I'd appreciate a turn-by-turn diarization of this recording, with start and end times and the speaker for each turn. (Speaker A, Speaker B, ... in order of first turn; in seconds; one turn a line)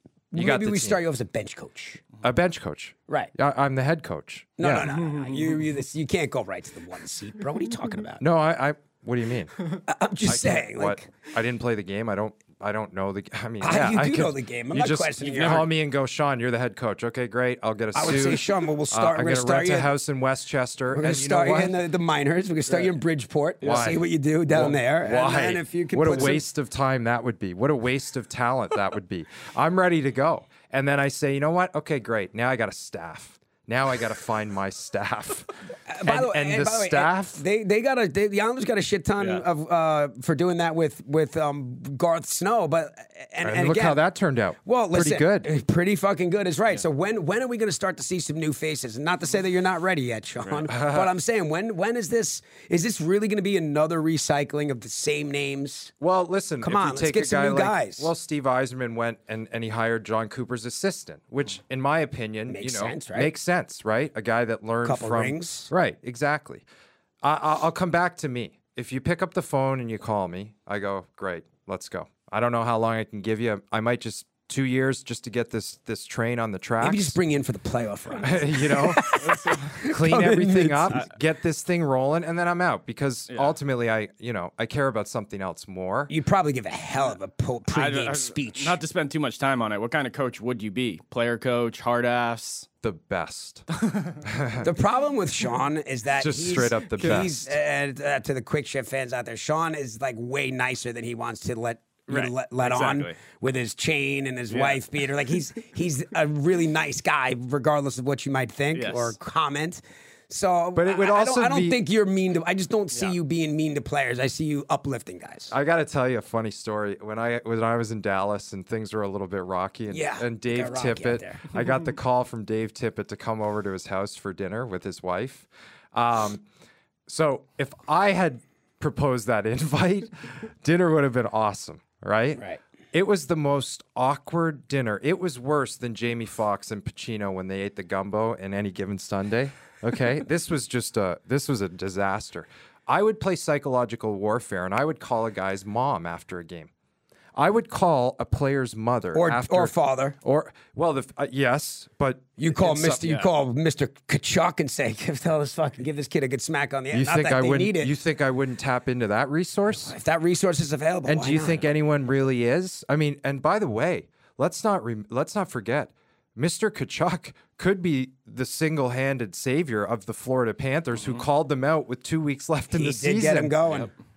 Speaker A: 0.3-2.0
Speaker B: 0.3-1.0
Speaker B: 2.2-4.9
Speaker A: 4.6-8.2
Speaker C: 5.1-5.6
Speaker B: 8.2-9.5
Speaker A: 9.8-11.1
Speaker B: 10.2-21.8
Speaker A: 13.6-15.7
Speaker A: 17.9-19.9
Speaker A: 20.9-26.4
Speaker B: 23.6-35.5
Speaker A: 35.9-44.0
Speaker B: 36.0-37.4
Speaker B: 43.4-45.5
Speaker A: 44.6-55.9
Speaker B: 50.7-51.1
Speaker B: 56.0-66.6
Speaker A: 56.6-58.1
Speaker A: 62.5-63.3
Speaker A: 64.8-65.7
Speaker B: 67.2-77.2
Speaker A: 76.8-81.0
Speaker B: 78.2-79.2
Speaker C: 79.2-79.7
Speaker B: 79.7-86.1
Speaker C: 83.3-83.5
Speaker A: 86.1-88.8
Speaker C: 87.7-92.7
Speaker B: 92.8-93.6
Speaker C: 93.8-94.2
Speaker B: 94.2-94.7
Speaker A: 94.6-115.5
Speaker B: 96.2-97.5
Speaker C: 102.1-103.2
Speaker C: 104.5-104.8
Speaker C: 108.7-109.2
Speaker B: 110.7-111.8
Speaker B: 115.5-126.4
Speaker A: 119.9-121.5
Speaker B: 127.1-146.7
Speaker B: 147.3-153.0
Speaker A: 149.1-150.2
Speaker A: 152.4-157.9
Speaker C: 153.0-153.3
Speaker B: 156.9-159.9
Speaker A: 159.8-161.6
Speaker B: 161.1-173.7
Speaker A: 172.7-173.9